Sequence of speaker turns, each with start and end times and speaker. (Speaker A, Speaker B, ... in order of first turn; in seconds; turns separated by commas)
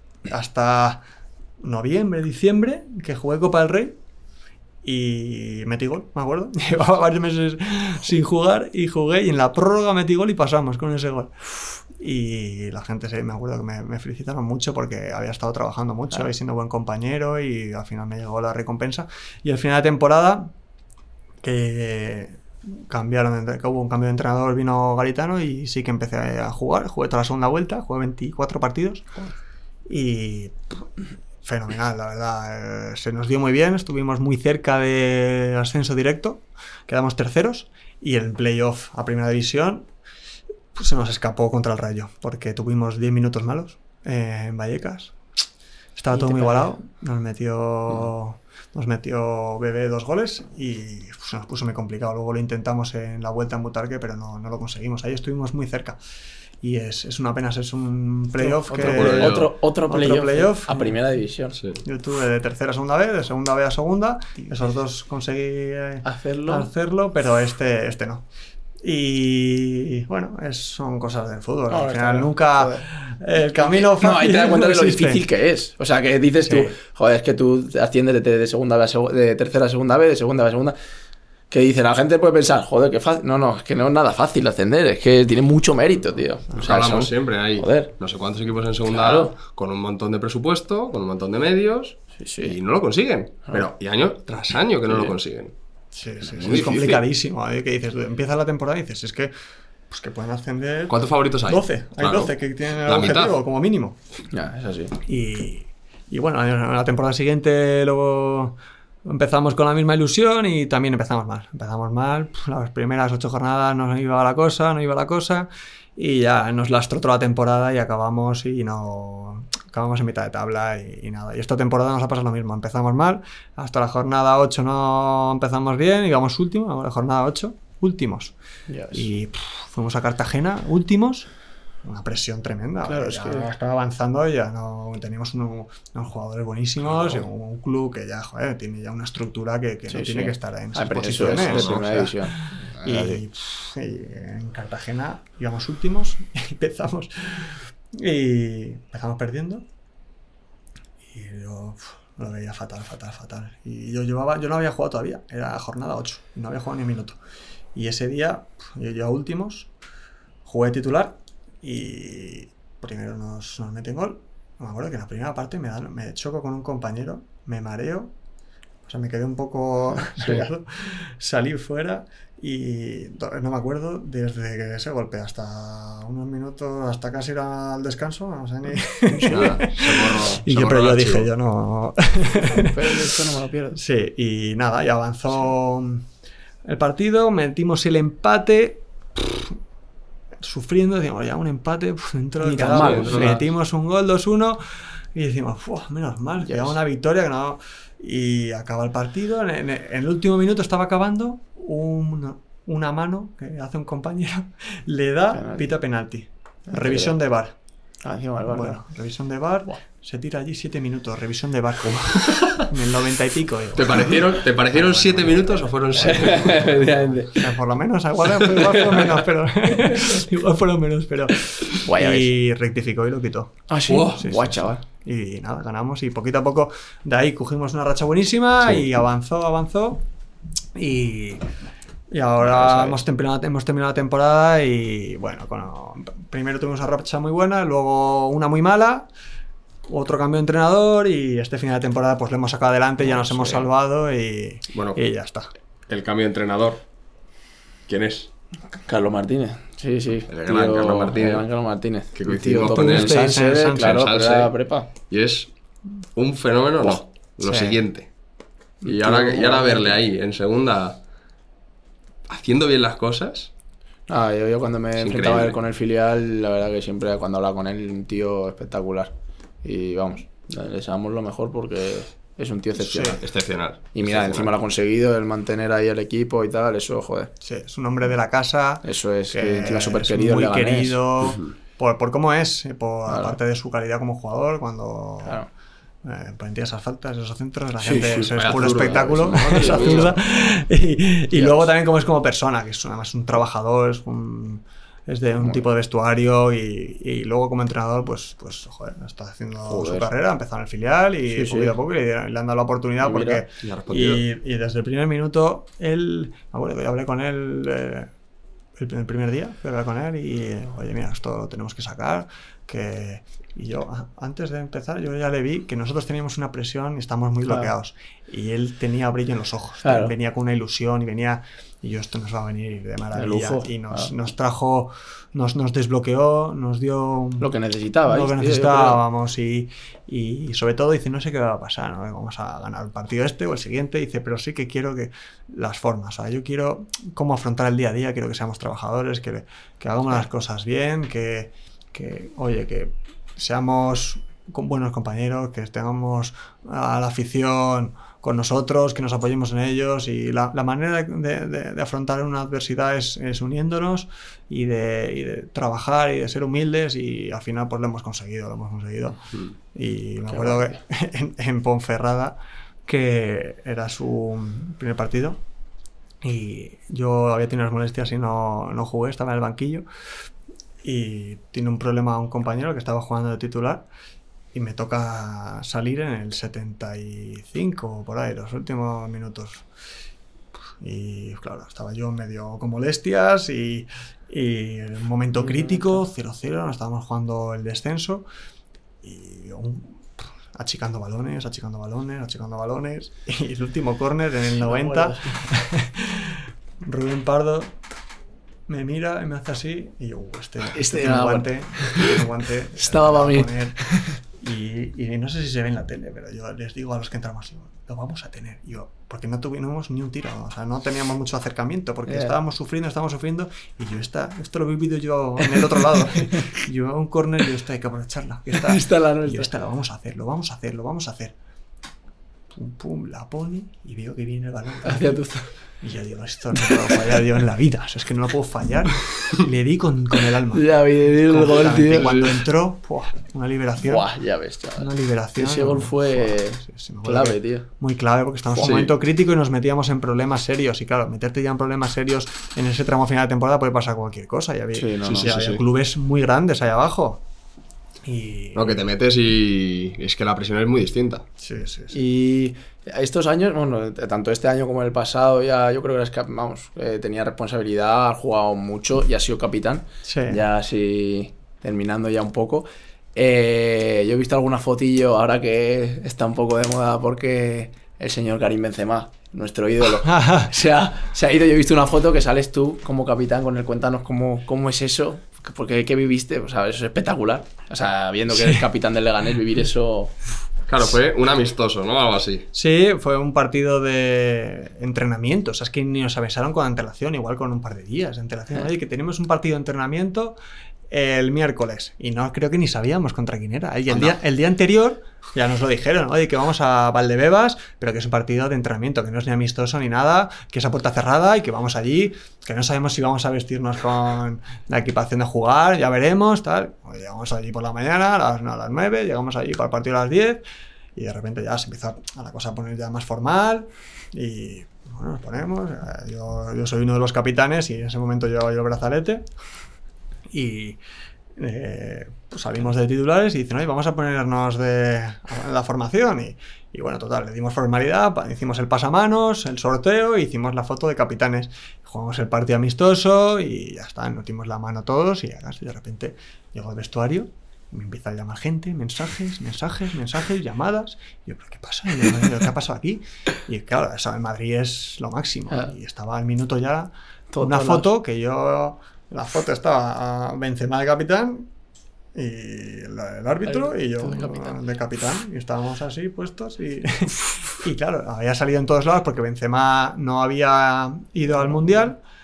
Speaker A: 0.3-1.0, Speaker A: 1.6-4.0, Speaker A: 4.8-11.3, Speaker A: 11.9-20.5, Speaker A: 21.4-29.1, Speaker A: 29.9-30.8, Speaker A: 31.4-39.9, Speaker A: 40.8-45.1, Speaker A: 46.0-56.0, Speaker B: 46.1-46.7, Speaker A: 56.6-61.0, Speaker B: 58.4-61.6, Speaker C: 58.8-59.5, Speaker C: 61.6-61.8, Speaker A: 61.8-68.3, Speaker B: 66.0-66.7, Speaker A: 68.8-75.3, Speaker B: 71.7-72.8, Speaker B: 73.6-80.8, Speaker A: 76.4-76.8, Speaker B: 81.5-87.9, Speaker C: 86.6-95.5, Speaker B: 88.9-89.3, Speaker B: 92.2-92.5, Speaker A: 95.9-99.3, Speaker C: 96.3-97.0, Speaker A: 99.9-104.0, Speaker C: 100.9-103.4, Speaker B: 104.3-105.0, Speaker A: 105.0-128.3, Speaker B: 128.7-129.1, Speaker A: 128.9-131.3, Speaker A: 131.8-149.7, Speaker B: 132.9-133.5, Speaker B: 139.9-143.2, Speaker C: 141.1-142.1, Speaker A: 151.1-157.2, Speaker A: 157.7-159.7, Speaker A: 160.4-168.1, Speaker A: 168.8-183.1, Speaker B: 179.1-179.6, Speaker C: 179.2-181.3, Speaker B: 182.3-183.8, Speaker A: 183.8-186.1, Speaker A: 186.6-189.6, Speaker A: 190.4-207.6, Speaker B: 192.4-193.4, Speaker C: 192.7-193.3, Speaker B: 196.4-196.8, Speaker B: 205.3-205.7, Speaker B: 206.7-207.2, Speaker B: 208.0-208.8, Speaker A: 208.5-223.6, Speaker C: 212.2-212.7, Speaker C: 213.8-216.7, Speaker B: 216.0-217.5, Speaker B: 218.4-219.2, Speaker B: 219.8-220.2, Speaker B: 221.7-222.3, Speaker B: 223.7-224.8, Speaker C: 223.9-224.2, Speaker A: 224.2-230.0, Speaker A: 230.8-231.5, Speaker A: 232.1-239.1, Speaker A: 239.9-245.5, Speaker B: 243.0-243.7, Speaker C: 244.7-245.0, Speaker C: 245.9-246.8, Speaker C: 247.9-248.3, Speaker B: 248.9-254.9, Speaker C: 250.3-251.5, Speaker C: 252.2-254.5, Speaker A: 252.7-254.1, Speaker C: 255.1-255.5, Speaker C: 256.1-258.1, Speaker A: 257.4-257.8, Speaker B: 258.8-260.0, Speaker C: 258.8-261.0, Speaker C: 262.3-263.5, Speaker B: 264.1-269.1, Speaker C: 265.0-265.6, Speaker B: 269.6-273.2, Speaker A: 272.8-273.2, Speaker C: 273.0-274.5, Speaker B: 273.9-277.3, Speaker A: 277.4-285.4, Speaker B: 278.8-281.0, Speaker C: 281.3-281.5, Speaker B: 283.1-283.4, Speaker A: 286.0-308.1, Speaker B: 287.8-290.2, Speaker C: 288.2-290.1, Speaker B: 291.3-291.7, Speaker B: 299.6-300.1, Speaker B: 301.3-301.8, Speaker B: 303.0-303.4, Speaker C: 303.6-304.2, Speaker A: 308.8-327.5, Speaker B: 317.4-317.7, Speaker B: 319.8-320.1, Speaker B: 323.1-324.1, Speaker B: 327.4-329.0, Speaker A: 328.1-359.2, Speaker A: 359.7-365.4, Speaker B: 360.3-360.7, Speaker A: 366.2-369.9, Speaker A: 370.8-373.9, Speaker A: 374.5-379.7, Speaker A: 380.8-388.3, Speaker B: 385.4-385.9, Speaker A: 389.0-397.8, Speaker B: 394.6-395.4, Speaker A: 398.7-403.8, Speaker B: 400.7-402.2, Speaker B: 402.8-404.1, Speaker A: 404.4-421.4, Speaker B: 412.1-412.4, Speaker B: 418.5-419.5, Speaker A: 422.5-425.2, Speaker B: 424.9-425.5, Speaker A: 425.8-430.7, Speaker B: 426.6-427.0, Speaker B: 430.5-432.3, Speaker A: 431.2-434.1, Speaker C: 432.0-432.2, Speaker B: 433.8-437.7, Speaker A: 434.8-447.2, Speaker B: 438.5-438.8, Speaker C: 438.6-438.9, Speaker B: 444.8-445.3, Speaker C: 445.1-445.6, Speaker A: 448.0-448.9, Speaker C: 448.6-451.2, Speaker A: 451.4-452.0, Speaker B: 451.9-480.1, Speaker A: 460.1-460.4, Speaker A: 470.0-470.5, Speaker A: 478.3-478.6, Speaker C: 480.7-482.5, Speaker A: 482.5-490.4, Speaker A: 490.9-510.4, Speaker A: 510.9-519.2, Speaker A: 520.3-520.8, Speaker A: 521.4-551.5, Speaker B: 547.3-547.9, Speaker A: 552.1-562.0, Speaker B: 553.5-554.6